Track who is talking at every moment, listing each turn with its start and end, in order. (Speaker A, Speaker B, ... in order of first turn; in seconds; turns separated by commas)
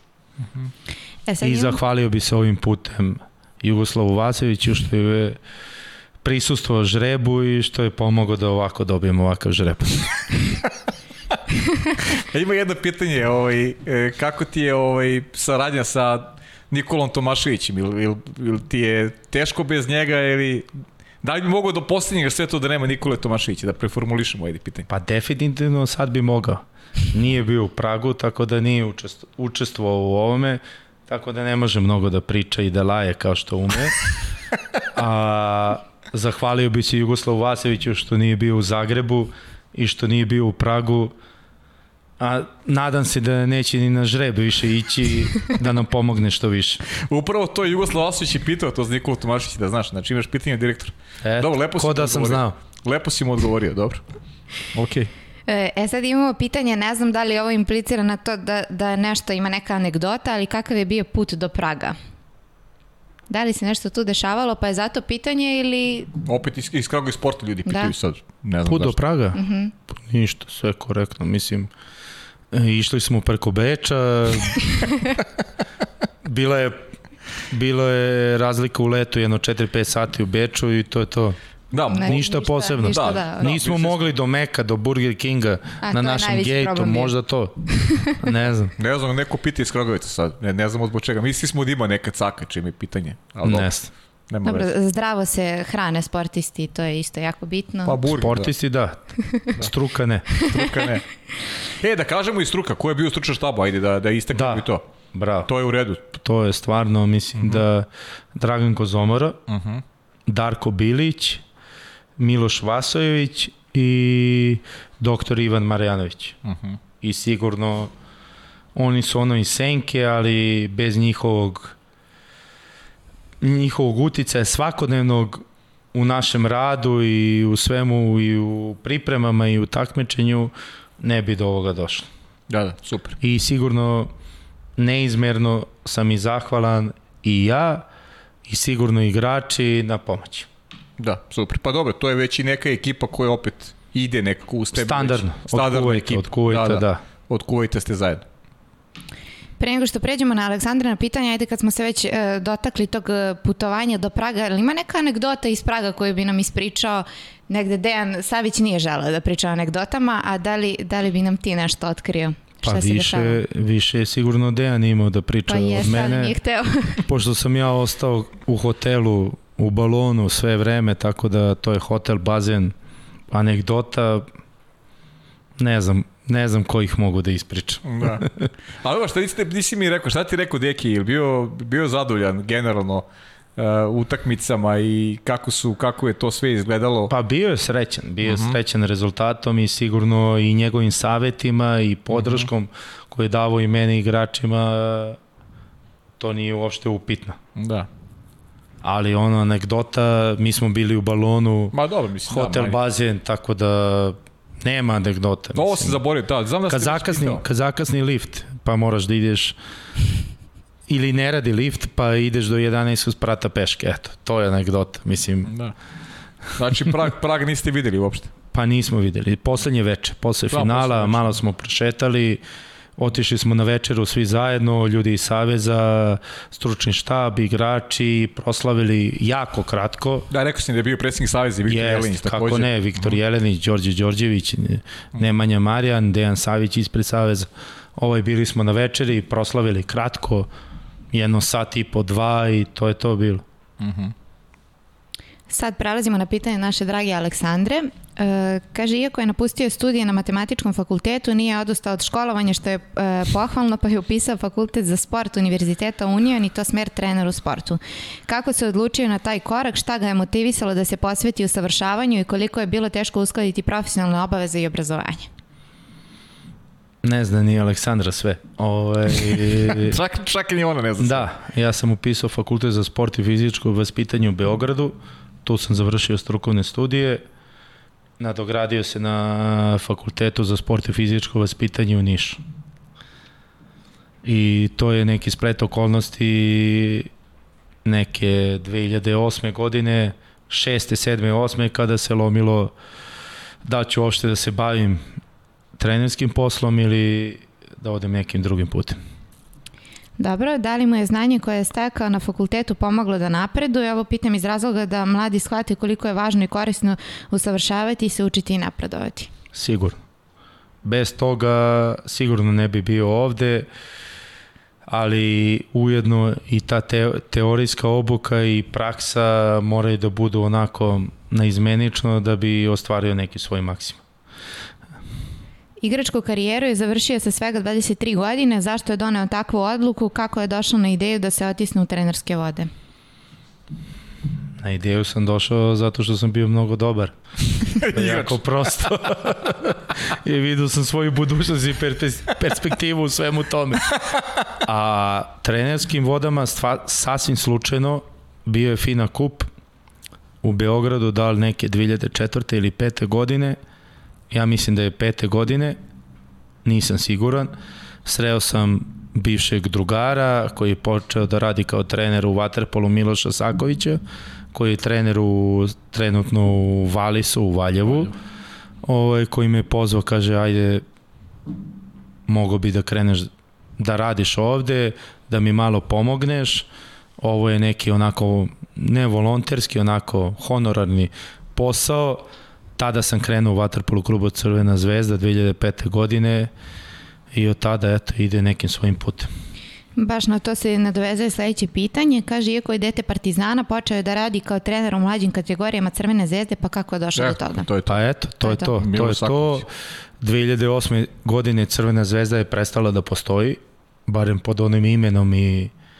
Speaker A: 1.3-1.8, Speaker B: 1.4-5.4, Speaker B: 6.2-10.1, Speaker C: 12.0-20.7, Speaker C: 21.2-24.9, Speaker B: 24.9-34.0, Speaker B: 34.9-41.1, Speaker B: 42.2-46.8, Speaker C: 47.1-54.0, Speaker B: 51.2-52.5, Speaker C: 54.7-55.1, Speaker A: 55.5-62.0, Speaker A: 63.3-66.1, Speaker C: 66.2-68.9, Speaker A: 67.7-67.9, Speaker B: 68.7-71.7, Speaker A: 69.3-69.7, Speaker B: 72.5-74.9, Speaker B: 76.2-76.9, Speaker B: 77.5-81.4, Speaker C: 81.7-82.2, Speaker A: 81.9-83.6, Speaker B: 82.0-88.7, Speaker C: 82.8-84.1, Speaker A: 85.8-87.1, Speaker A: 87.7-88.2, Speaker C: 88.8-93.7, Speaker B: 93.4-93.9, Speaker C: 94.3-94.7, Speaker A: 94.4-98.0, Speaker C: 97.8-98.5, Speaker B: 98.1-100.3, Speaker C: 100.3-101.1, Speaker A: 100.5-100.8, Speaker C: 101.7-104.8, Speaker B: 104.3-105.5, Speaker C: 105.5-106.0, Speaker B: 106.1-109.4, Speaker C: 107.4-107.6, Speaker C: 109.5-109.8, Speaker B: 110.3-111.4, Speaker B: 112.2-116.4, Speaker C: 116.4-116.8, Speaker B: 117.0-117.9, Speaker B: 118.7-121.8, Speaker B: 123.4-132.1, Speaker C: 132.5-133.2, Speaker B: 133.2-134.1, Speaker B: 134.8-137.8, Speaker B: 138.5-140.5, Speaker C: 141.0-148.2, Speaker B: 144.7-147.0, Speaker A: 149.6-163.4, Speaker B: 162.6-166.3, Speaker A: 165.5-167.1, Speaker B: 167.0-172.7, Speaker B: 173.3-174.3, Speaker B: 175.6-178.4, Speaker C: 177.8-178.3, Speaker C: 178.8-183.0, Speaker C: 183.6-187.1, Speaker B: 187.1-195.2, Speaker C: 188.2-188.6, Speaker C: 192.1-192.5, Speaker B: 196.2-197.4, Speaker C: 197.6-197.9, Speaker B: 198.8-201.7, Speaker C: 201.7-202.8, Speaker B: 202.3-206.0, Speaker C: 205.5-207.4, Speaker B: 206.7-209.6, Speaker B: 210.9-215.5, Speaker C: 215.5-215.7, Speaker C: 216.5-218.3, Speaker B: 218.5-222.4, Speaker C: 220.5-221.4, Speaker B: 223.0-230.3, Speaker C: 230.3-233.2, Speaker B: 231.7-240.5, Speaker B: 241.1-243.4, Speaker C: 243.8-244.1, Speaker A: 245.5-265.3, Speaker B: 267.0-270.0, Speaker C: 269.6-271.3, Speaker B: 271.0-277.2, Speaker B: 278.2-282.4, Speaker B: 284.2-287.1, Speaker B: 287.8-292.7, Speaker B: 293.6-295.0, Speaker B: 295.8-299.0, Speaker A: 300.2-309.3, Speaker B: 309.5-310.0, Speaker B: 310.8-313.7, Speaker B: 314.9-324.0, Speaker A: 325.8-332.7, Speaker B: 334.6-337.1, Speaker C: 337.6-338.4, Speaker B: 337.7-343.9, Speaker C: 343.9-344.2, Speaker B: 344.5-349.5, Speaker B: 350.4-353.6, Speaker B: 354.3-355.8, Speaker B: 356.6-357.5, Speaker B: 358.0-364.0, Speaker B: 364.5-368.1, Speaker B: 368.8-370.8, Speaker B: 372.3-376.7, Speaker B: 377.2-382.2, Speaker B: 382.8-386.5, Speaker B: 387.3-389.3, Speaker A: 389.9-397.7, Speaker C: 397.1-398.0, Speaker B: 397.9-399.6, Speaker C: 398.6-399.6, Speaker B: 400.2-405.7